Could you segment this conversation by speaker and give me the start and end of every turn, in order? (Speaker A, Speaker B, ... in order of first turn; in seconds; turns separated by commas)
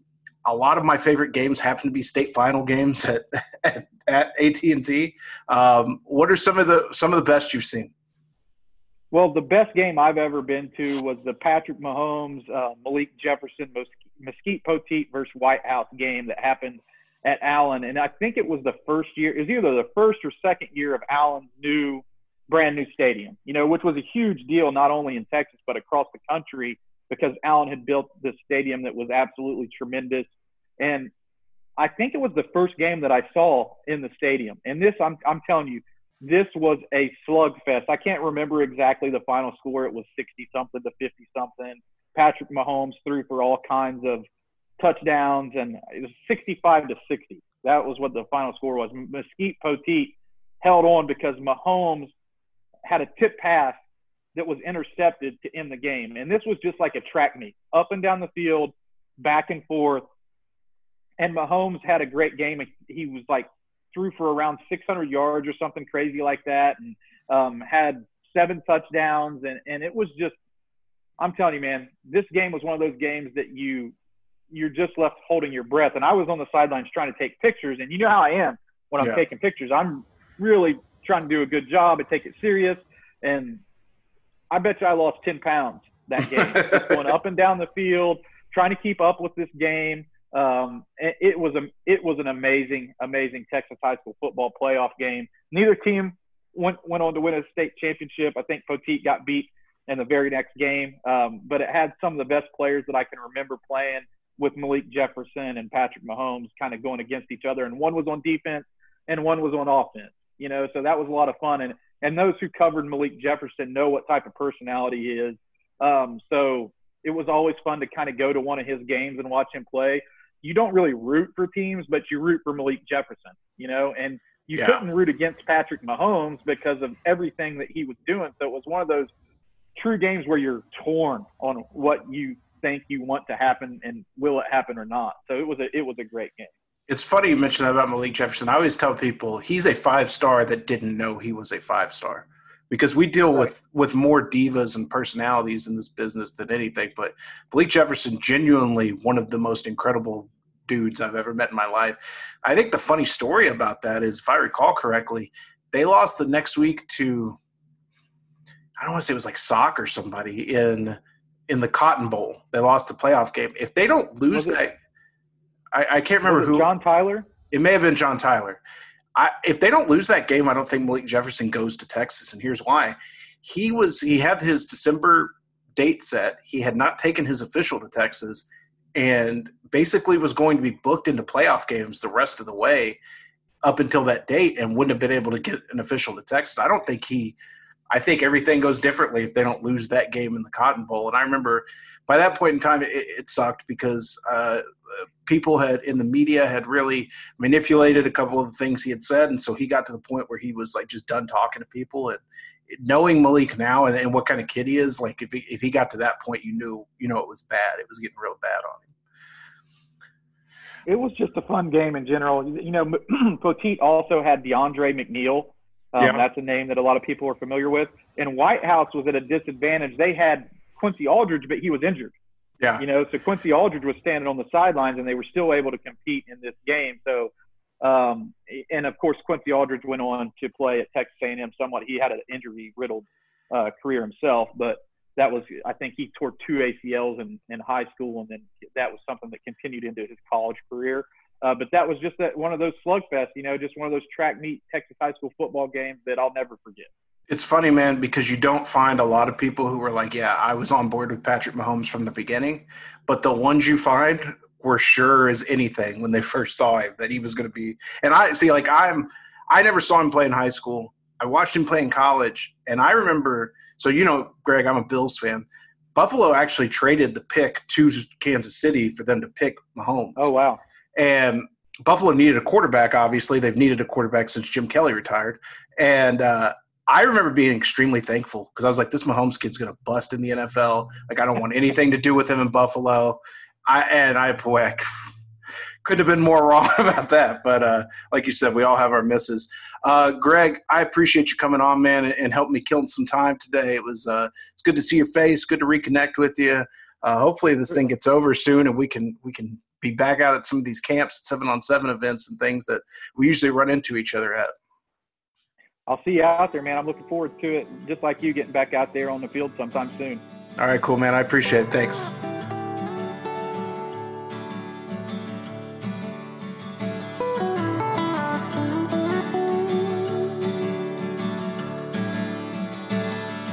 Speaker A: 0.4-7.9, Speaker B: 9.1-31.1, Speaker B: 31.8-44.2, Speaker B: 44.8-52.1, Speaker B: 52.9-53.8, Speaker B: 54.3-60.0, Speaker B: 61.2-70.4, Speaker B: 71.2-73.9, Speaker B: 74.5-83.6, Speaker B: 84.5-129.1, Speaker A: 86.3-87.0, Speaker A: 124.5-124.8, Speaker B: 129.8-136.5, Speaker A: 136.9-157.4, Speaker A: 158.8-164.8, Speaker B: 164.3-164.6, Speaker A: 165.7-166.7, Speaker B: 166.2-167.3, Speaker A: 167.5-168.6, Speaker A: 169.1-183.0, Speaker A: 183.6-187.4, Speaker A: 187.9-208.9, Speaker B: 210.9-222.1, Speaker A: 216.0-216.2, Speaker B: 222.8-246.9, Speaker A: 247.3-270.3, Speaker B: 270.1-270.6, Speaker A: 270.9-285.1, Speaker A: 285.8-304.5, Speaker B: 305.9-310.2, Speaker A: 310.6-312.1